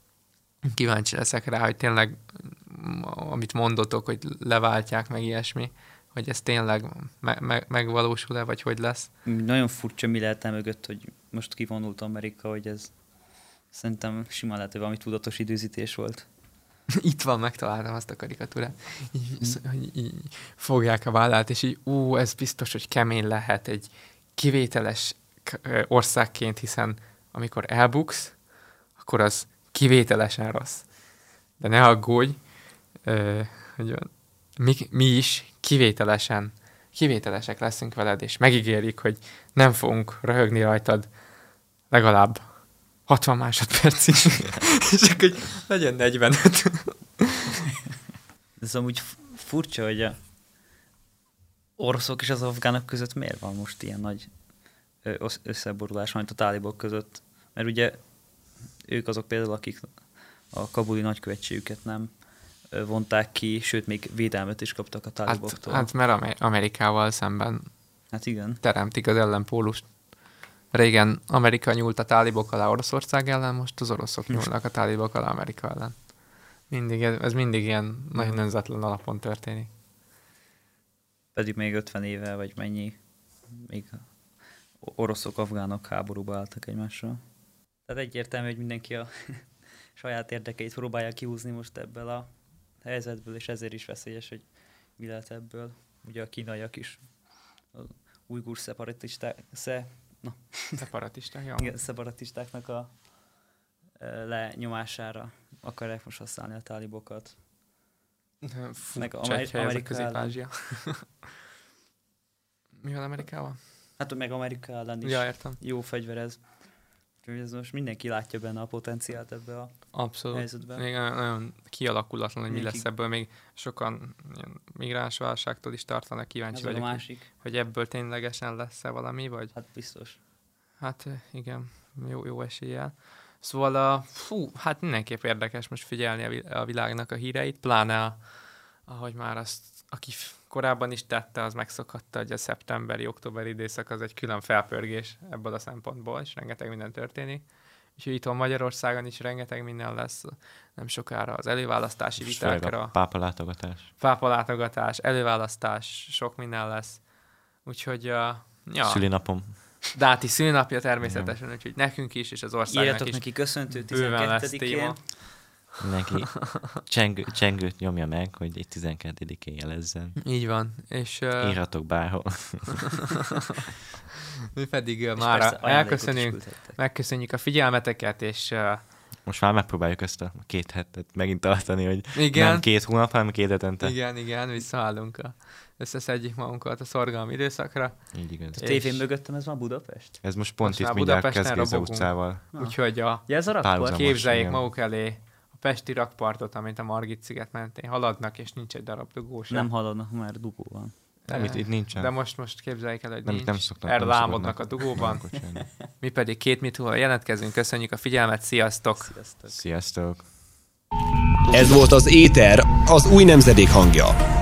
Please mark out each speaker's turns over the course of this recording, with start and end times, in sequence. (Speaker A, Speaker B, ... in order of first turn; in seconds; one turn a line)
Speaker A: 0.6-9.1
Speaker B: 9.2-12.9
Speaker B: 13.7-16.2
Speaker A: 17.0-28.4
Speaker A: 28.9-30.9
Speaker A: 31.6-32.4
Speaker A: 33.0-41.1
Speaker A: 41.9-47.4
Speaker B: 48.6-50.2
Speaker B: 51.8-54.3
Speaker B: 55.0-58.0
Speaker B: 58.9-62.1
Speaker B: 62.7-65.9
Speaker A: 65.3-67.7
Speaker B: 68.1-68.6
Speaker A: 68.6-69.9
Speaker A: 70.7-76.0
Speaker A: 76.7-79.7
Speaker B: 81.3-83.0
Speaker B: 83.5-84.0
Speaker B: 84.8-87.2
Speaker B: 87.8-89.4
Speaker B: 90.0-92.3
Speaker B: 92.8-94.4
Speaker B: 95.0-97.0
Speaker B: 97.7-100.9
Speaker A: 100.8-101.8
Speaker B: 101.6-102.9
Speaker B: 104.0-107.3
Speaker A: 108.4-111.0
Speaker B: 109.0-110.4
Speaker A: 112.8-113.6
Speaker B: 114.0-120.8
Speaker A: 115.0-115.6
Speaker A: 119.9-129.5
Speaker B: 122.5-122.8
Speaker B: 126.5-127.3
Speaker B: 129.5-130.2
Speaker A: 130.8-138.2
Speaker A: 138.8-152.9
Speaker C: 152.2-153.9
Speaker A: 154.0-157.0
Speaker A: 157.6-159.3
Speaker C: 158.8-159.9
Speaker A: 159.9-165.3
Speaker C: 161.0-161.3
Speaker B: 162.7-165.0
Speaker C: 165.8-170.2
Speaker A: 170.2-171.6
Speaker C: 171.4-172.9
Speaker A: 174.5-178.8
Speaker B: 175.2-176.8
Speaker C: 179.2-184.0
Speaker A: 182.1-182.7
Speaker A: 183.8-189.0
Speaker C: 188.1-188.6
Speaker B: 188.6-190.2
Speaker C: 190.2-192.4
Speaker A: 190.6-199.7
Speaker B: 192.5-194.1
Speaker C: 193.6-194.6
Speaker B: 199.5-200.9
Speaker A: 201.3-205.3
Speaker C: 201.3-202.1
Speaker C: 203.2-205.7
Speaker A: 206.0-209.1
Speaker B: 209.0-209.6
Speaker C: 209.5-210.2
Speaker D: 211.5-214.2